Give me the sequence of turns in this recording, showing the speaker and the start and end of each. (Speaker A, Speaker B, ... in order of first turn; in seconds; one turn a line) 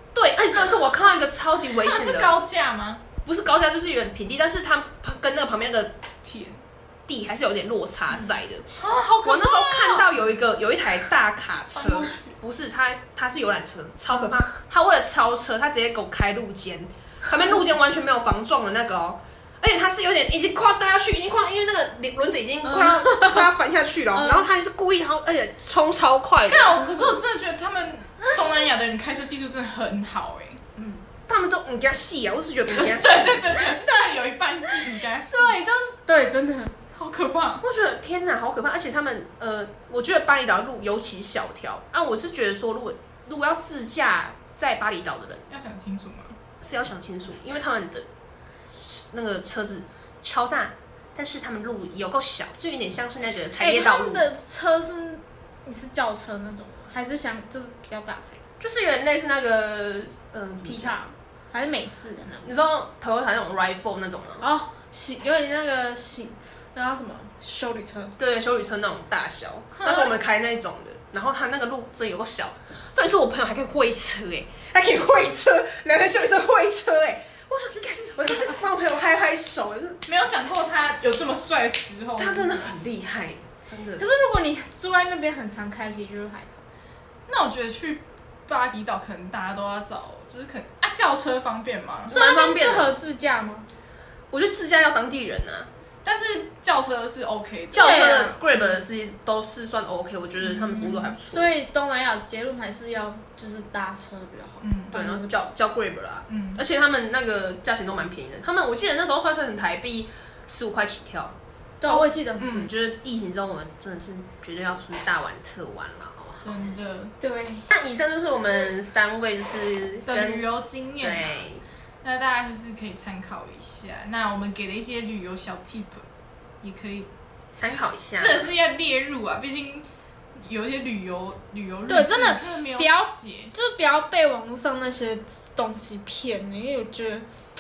Speaker A: 0.1-2.4
Speaker B: 1.7-3.0
Speaker A: 3.2-6.0
Speaker B: 6.2-6.6
Speaker A: 7.1-8.7
Speaker B: 8.8-10.3
Speaker A: 9.2-26.8
Speaker B: 11.7-12.3
Speaker C: 22.7-23.5
Speaker C: 24.1-24.5
Speaker B: 26.5-30.6
Speaker C: 30.8-31.0
Speaker A: 31.3-33.5
Speaker B: 32.7-35.6
Speaker C: 33.8-34.1
Speaker C: 35.3-36.8
Speaker B: 36.9-37.6
Speaker A: 37.6-45.5
Speaker B: 45.5-46.4
Speaker A: 46.6-48.1
Speaker A: 48.6-54.3
Speaker C: 53.6-58.4
Speaker A: 58.6-61.0
Speaker C: 60.7-62.5
Speaker A: 62.4-64.4
Speaker C: 64.4-68.1
Speaker A: 68.2-80.0
Speaker B: 80.1-82.7
Speaker A: 82.2-84.1
Speaker C: 84.0-86.6
Speaker B: 87.3-92.2
Speaker A: 92.1-92.9
Speaker C: 92.1-93.7
Speaker A: 94.3-95.7
Speaker B: 96.0-98.3
Speaker A: 97.7-101.5
Speaker C: 97.7-98.4
Speaker B: 100.4-101.1
Speaker C: 101.2-105.5
Speaker B: 104.6-105.0
Speaker A: 104.9-111.4
Speaker B: 106.3-106.6
Speaker C: 111.8-112.7
Speaker A: 111.9-116.5
Speaker B: 112.4-112.7
Speaker B: 116.4-117.1
Speaker C: 117.2-117.7
Speaker A: 117.7-120.5
Speaker B: 120.1-121.5
Speaker A: 121.0-121.6
Speaker B: 122.0-126.0
Speaker B: 126.6-127.1
Speaker A: 127.5-128.5
Speaker B: 127.6-129.9
Speaker B: 130.4-133.5
Speaker C: 131.9-137.3